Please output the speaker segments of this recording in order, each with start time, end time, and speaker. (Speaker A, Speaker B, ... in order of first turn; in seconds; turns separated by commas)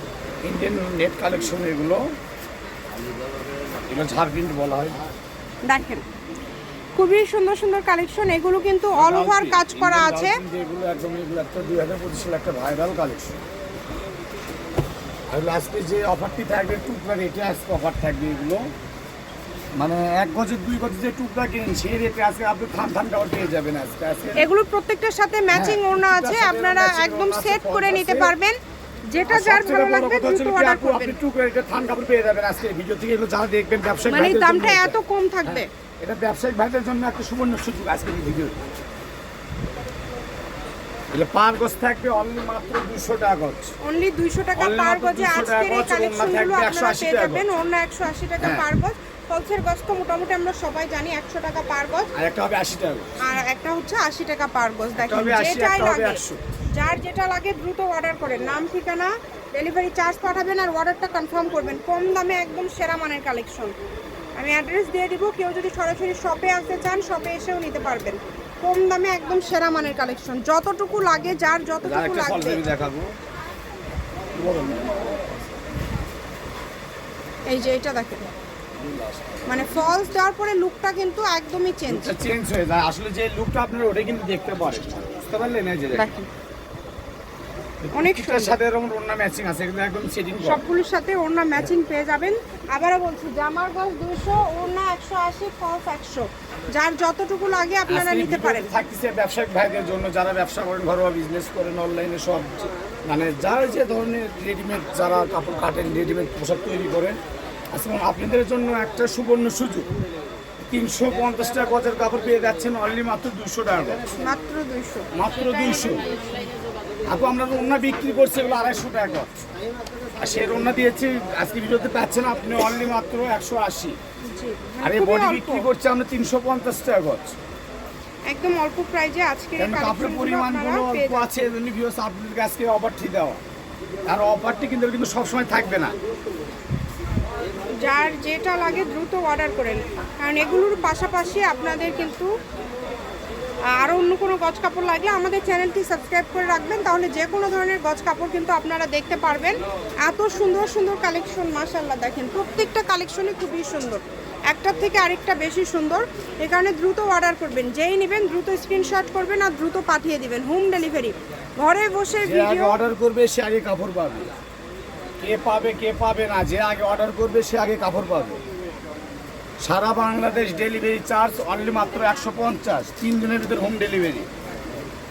Speaker A: 0.4-2.0, Speaker A: 3.9-4.9, Speaker B: 5.7-6.0, Speaker B: 6.9-10.4, Speaker A: 8.9-13.4, Speaker A: 15.3-18.6, Speaker A: 19.8-24.5, Speaker B: 24.4-28.6, Speaker A: 25.5-28.3, Speaker B: 29.1-31.2, Speaker A: 29.3-38.5, Speaker B: 34.0-35.7, Speaker A: 41.1-43.7, Speaker B: 43.8-52.1, Speaker A: 44.6-47.5, Speaker A: 48.4-48.6, Speaker A: 52.1-53.4, Speaker B: 53.2-63.7, Speaker A: 55.0-56.4, Speaker B: 64.4-72.6, Speaker A: 71.8-73.1, Speaker A: 74.3-75.2, Speaker B: 77.5-78.3, Speaker B: 79.5-82.1, Speaker A: 81.8-86.1, Speaker B: 85.9-86.3, Speaker A: 87.8-90.6, Speaker B: 87.9-88.6, Speaker B: 90.4-98.7, Speaker A: 97.9-107.2, Speaker A: 107.7-109.8, Speaker A: 110.7-114.0, Speaker B: 114.2-116.0, Speaker A: 115.1-116.0, Speaker A: 117.0-119.4, Speaker A: 120.2-124.0, Speaker B: 124.2-125.7, Speaker A: 124.8-127.3, Speaker B: 128.3-131.5, Speaker A: 129.6-133.4, Speaker A: 134.1-135.9, Speaker B: 137.8-142.3, Speaker B: 143.7-162.8, Speaker A: 162.2-164.3, Speaker A: 165.2-168.4, Speaker A: 169.6-174.3